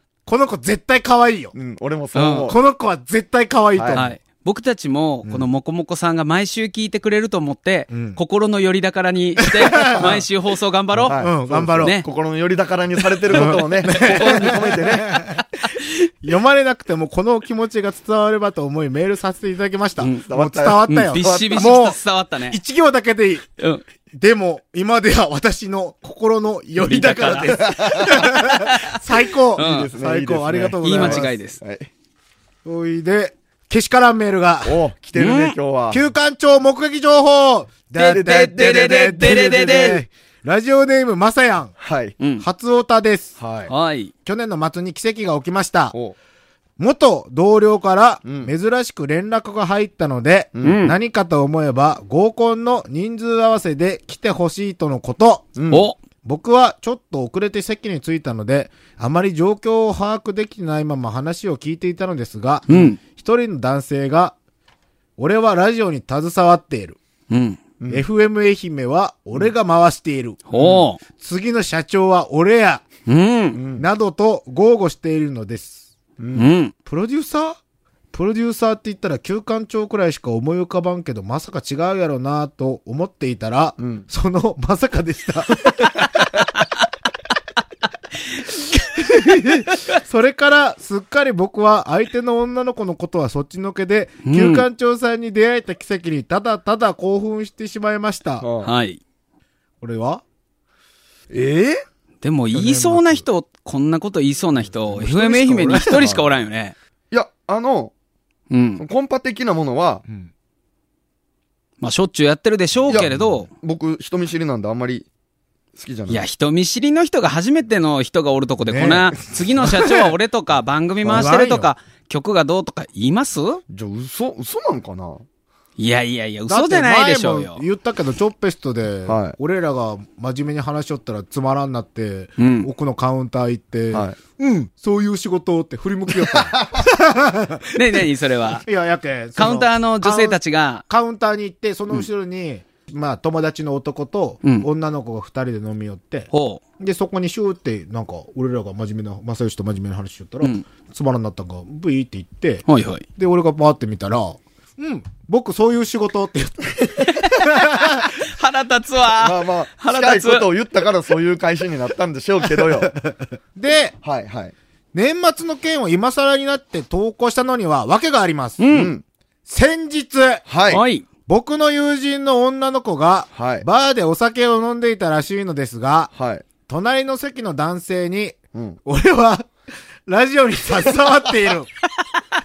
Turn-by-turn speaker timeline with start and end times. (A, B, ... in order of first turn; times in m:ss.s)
0:00.3-0:01.6 A
0:01.6-0:02.6 B
0:02.2-0:02.5 C
0:02.5-0:04.2 A
0:03.8-0:04.0 B
0:03.9-0:11.2 C
0:07.9-0:08.2 A
0:09.4-0:10.2 A
0:11.0-0:15.3 B
0:11.1-0:12.0 A
0:11.8-0:12.1 C
0:13.3-0:14.6 C
0:13.3-0:15.4 A
0:15.4-0:16.0 C
0:16.2-0:22.0 A
0:20.0-0:20.3 C
0:20.3-0:21.7 B
0:20.9-0:22.6 C
0:22.5-0:23.5 A
0:23.6-0:23.8 C
0:24.1-0:31.3 A
0:26.8-0:29.0 C
0:26.9-0:28.4 B
0:29.6-0:31.9 B
0:29.6-0:29.9 C
0:30.8-0:31.6 C
0:32.6-0:34.8 A
0:34.6-0:36.0 B
0:35.2-0:35.6 C
0:35.9-0:41.7 A
0:38.0-0:40.0 C
0:38.0-0:40.0 B
0:41.8-0:42.2 B
0:42.2-0:42.5 C
0:42.4-0:43.4 A
0:43.4-0:43.7 B
0:43.7-0:44.1 C
0:44.2-0:46.0 A
0:46.8-0:55.6 A
0:48.2-0:48.5 B
0:50.6-0:50.8 B
0:50.6-0:51.0 C
0:55.6-0:55.9 B
0:55.7-0:56.0 C
0:56.2-1:04.4 A
1:02.7-1:03.0 C
1:05.2-1:07.0 A
1:07.3-1:07.6 C
1:07.9-1:10.5 A
1:10.5-1:11.0 C
1:10.6-1:10.8 B
1:11.1-1:12.8 A
1:13.1-1:13.6 C
1:13.5-1:13.9 B
1:13.8-1:15.9 A
1:16.2-1:16.5 B
1:16.3-1:16.7 C
1:16.9-1:17.6 A
1:18.1-1:26.2 A
1:23.8-1:24.1 B
1:28.9-1:38.5 A
1:34.2-1:34.7 C
1:38.4-1:38.7 B
1:38.6-1:39.0 C
1:39.8-1:40.2 A
1:41.3-1:41.8 B
1:42.2-1:46.8 C
1:42.5-1:43.3 A
1:44.8-1:46.0 A
1:45.9-1:46.2 B
1:47.1-1:47.9 B
1:48.5-1:48.8 C
1:48.8-1:50.0 B
1:51.8-1:53.5 C
1:52.9-1:55.1 B
1:55.8-1:56.2 B
1:56.1-2:03.6 C
1:58.6-1:59.9 A
2:01.0-2:01.3 B
2:01.1-2:01.7 A
2:03.7-2:05.2 B
2:05.8-2:07.6 C
2:06.5-2:18.0 A
2:09.1-2:09.4 B
2:12.4-2:12.7 C
2:13.9-2:14.2 B
2:16.5-2:16.8 B
2:17.8-2:18.7 C
2:18.6-2:38.1 A
2:19.4-2:20.8 C
2:26.3-2:26.6 C
2:30.4-2:30.7 C
2:32.7-2:33.0 C
2:37.0-2:40.5 C
2:39.2-2:43.0 B
2:42.6-2:44.0 A
2:44.0-2:44.5 B
2:44.9-2:48.6 A
2:48.6-2:48.9 C
2:48.7-2:49.0 B
2:49.5-2:50.4 A
2:50.5-2:50.8 B
2:50.7-2:51.1 C
2:51.3-2:56.1 A
2:53.3-2:53.7 B
2:56.1-2:56.5 B
2:56.7-2:59.5 A
3:00.1-3:01.7 A